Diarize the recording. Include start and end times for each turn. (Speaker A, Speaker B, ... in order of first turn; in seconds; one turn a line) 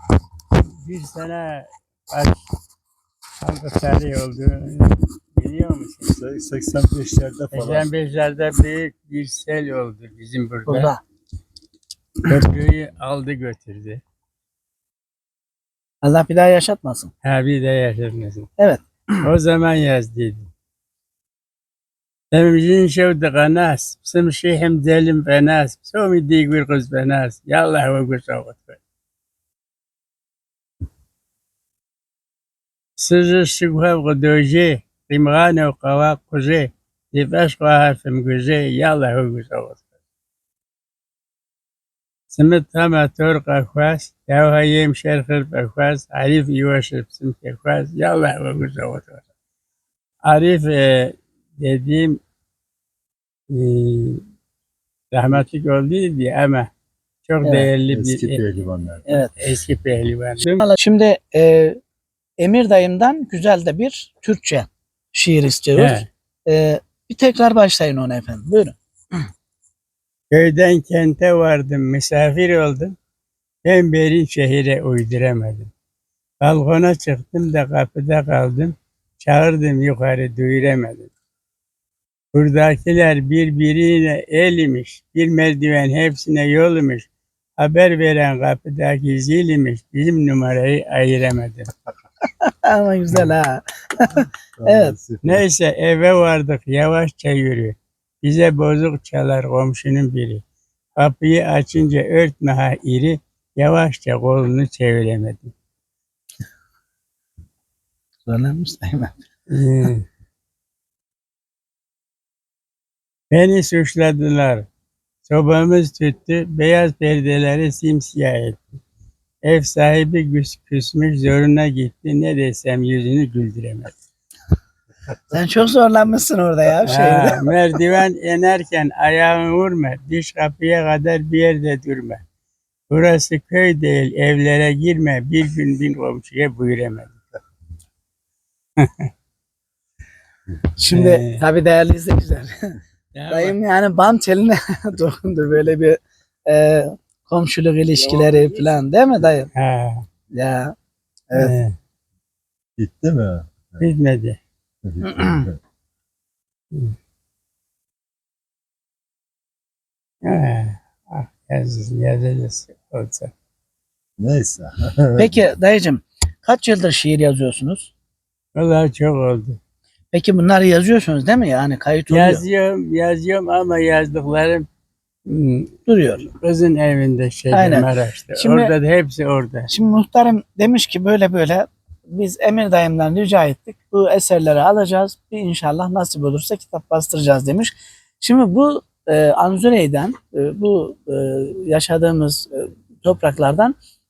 Speaker A: 0.6-2.4
Speaker A: 3.4-6.2
Speaker B: 6.1-7.9
Speaker A: 7.5-10.9
Speaker C: 10.7-11.0
Speaker A: 12.3-14.0
Speaker C: 16.0-17.1
Speaker A: 17.2-18.5
Speaker C: 18.6-19.2
Speaker A: 19.2-20.5
Speaker A: 22.3-28.8
Speaker A: 33.0-39.8
Speaker A: 42.3-49.2
Speaker A: 50.2-52.2
Speaker A: 53.5-54.3
Speaker A: 55.1-56.7
Speaker A: 57.2-58.4
Speaker C: 57.4-57.7
Speaker B: 57.9-59.2
Speaker C: 59.1-59.3
Speaker A: 59.4-60.6
Speaker C: 60.6-61.8
Speaker C: 62.4-68.8
Speaker A: 65.8-66.1
Speaker A: 70.3-73.0
Speaker A: 73.6-75.7
Speaker A: 76.4-81.1
Speaker A: 82.3-87.1
Speaker A: 87.6-91.7
Speaker C: 92.5-95.0
Speaker B: 94.5-95.4
Speaker A: 95.2-100.4
Speaker A: 101.0-105.5
Speaker C: 108.3-109.1
Speaker A: 109.5-110.0
Speaker A: 113.3-114.7
Speaker A: 115.3-118.8
Speaker A: 119.4-123.9
Speaker C: 125.3-127.5
Speaker A: 126.8-132.2
Speaker A: 132.9-137.4
Speaker A: 138.8-139.1
Speaker C: 140.8-142.8
Speaker A: 140.9-141.4
Speaker A: 143.1-143.6
Speaker C: 143.3-149.5
Speaker A: 149.5-150.1
Speaker C: 150.3-150.7
Speaker A: 151.4-151.8
Speaker B: 152.8-153.9
Speaker A: 153.8-154.4
Speaker B: 154.8-155.6
Speaker C: 155.0-155.5
Speaker A: 160.2-163.3
Speaker B: 164.2-165.4
Speaker C: 165.2-167.9
Speaker A: 168.6-169.6
Speaker C: 170.1-172.4
Speaker A: 172.1-174.7
Speaker A: 175.3-175.8
Speaker C: 175.9-176.3
Speaker A: 176.3-179.7
Speaker C: 177.5-178.7
Speaker C: 179.7-193.7